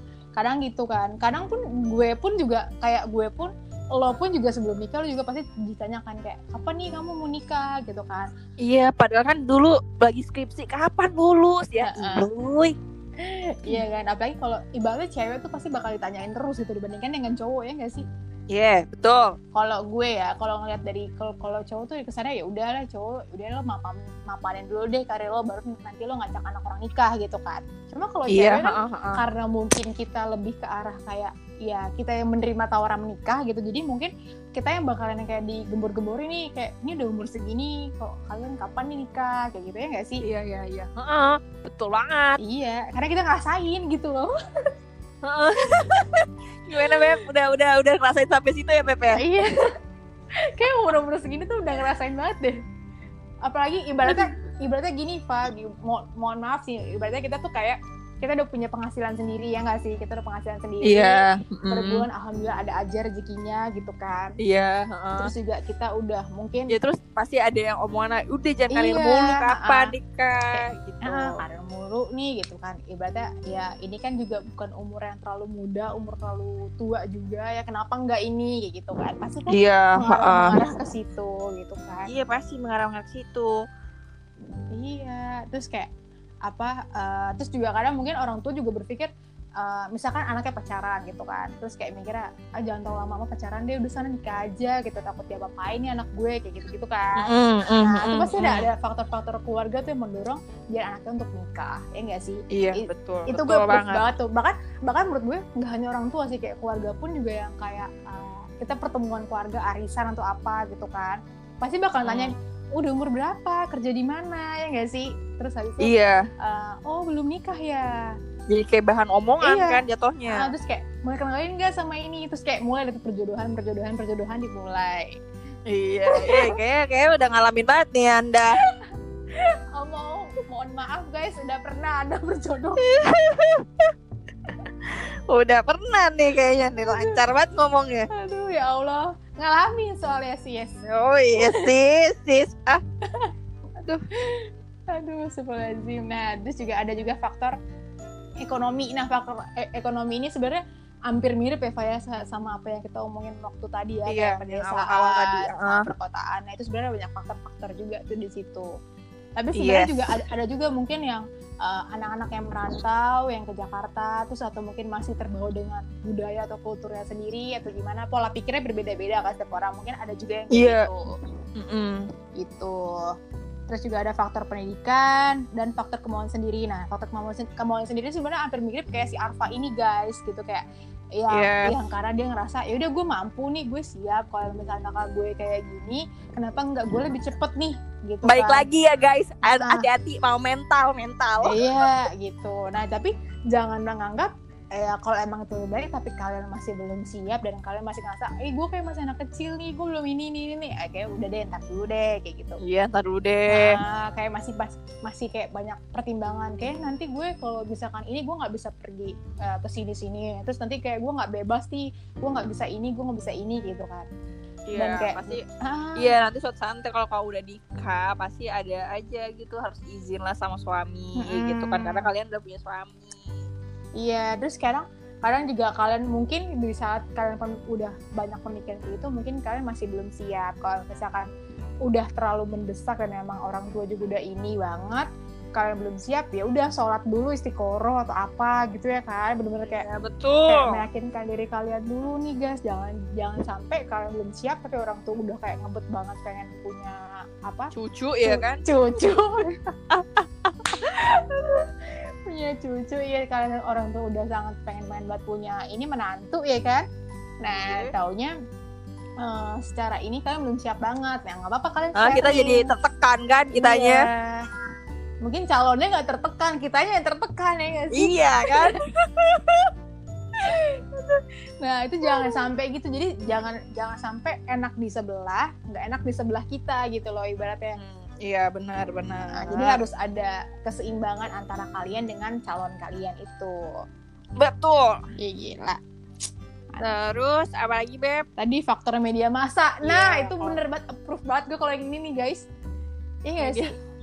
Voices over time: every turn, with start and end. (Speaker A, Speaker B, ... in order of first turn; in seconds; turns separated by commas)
Speaker A: 0.3-8.3, Speaker B: 8.6-12.7, Speaker A: 11.8-12.3, Speaker A: 13.2-18.0, Speaker B: 18.5-19.4, Speaker A: 19.5-40.2, Speaker B: 28.3-29.2, Speaker B: 40.2-42.4, Speaker A: 42.4-44.3, Speaker B: 45.2-49.2, Speaker A: 46.7-47.2, Speaker A: 49.1-49.6, Speaker A: 50.4-52.6, Speaker A: 53.4-64.4, Speaker B: 54.0-54.4, Speaker B: 60.8-62.0, Speaker B: 64.4-65.3, Speaker A: 65.2-66.7, Speaker B: 66.7-71.4, Speaker A: 68.7-69.9, Speaker A: 70.5-82.1, Speaker B: 79.5-80.6, Speaker B: 82.1-83.5, Speaker A: 84.7-85.9, Speaker A: 86.5-97.3, Speaker B: 97.2-98.7, Speaker A: 97.8-115.9, Speaker B: 102.5-104.0, Speaker B: 112.0-112.3, Speaker B: 115.8-116.2, Speaker A: 116.4-118.0, Speaker B: 118.5-120.5, Speaker A: 119.4-125.2, Speaker B: 125.7-128.6, Speaker A: 126.1-126.5, Speaker A: 129.4-132.8, Speaker B: 132.8-133.9, Speaker B: 134.8-138.1, Speaker A: 136.8-137.2, Speaker A: 138.1-140.8, Speaker B: 140.8-142.8, Speaker A: 141.4-141.7, Speaker A: 144.2-147.6, Speaker A: 148.4-158.7, Speaker B: 154.1-155.8, Speaker A: 159.4-171.1, Speaker B: 159.6-160.1, Speaker B: 170.5-170.9, Speaker B: 171.6-172.1, Speaker A: 172.4-173.1, Speaker A: 173.7-180.6, Speaker A: 181.2-188.7, Speaker B: 181.3-181.8, Speaker B: 188.2-191.9, Speaker A: 189.4-189.8, Speaker A: 191.4-202.6, Speaker B: 202.6-203.8, Speaker A: 203.5-214.1, Speaker B: 214.7-215.4, Speaker A: 214.7-216.2, Speaker B: 216.0-223.4, Speaker A: 221.2-222.1, Speaker A: 224.0-231.3, Speaker A: 231.8-239.8, Speaker B: 239.7-240.8, Speaker A: 240.5-247.7, Speaker B: 247.7-248.6, Speaker A: 248.2-249.7, Speaker B: 249.9-251.6, Speaker A: 250.7-256.9, Speaker A: 257.4-258.3, Speaker B: 257.5-257.9, Speaker A: 259.2-262.7, Speaker B: 261.9-264.1, Speaker A: 263.5-264.5, Speaker A: 265.2-268.8, Speaker B: 267.9-269.7, Speaker A: 270.4-277.8, Speaker B: 272.1-272.5, Speaker B: 277.8-279.8, Speaker A: 279.3-283.6, Speaker B: 284.4-285.0, Speaker A: 285.2-285.8, Speaker B: 286.8-288.3, Speaker A: 288.4-292.5, Speaker B: 289.8-290.6, Speaker A: 293.2-293.7, Speaker B: 293.4-293.7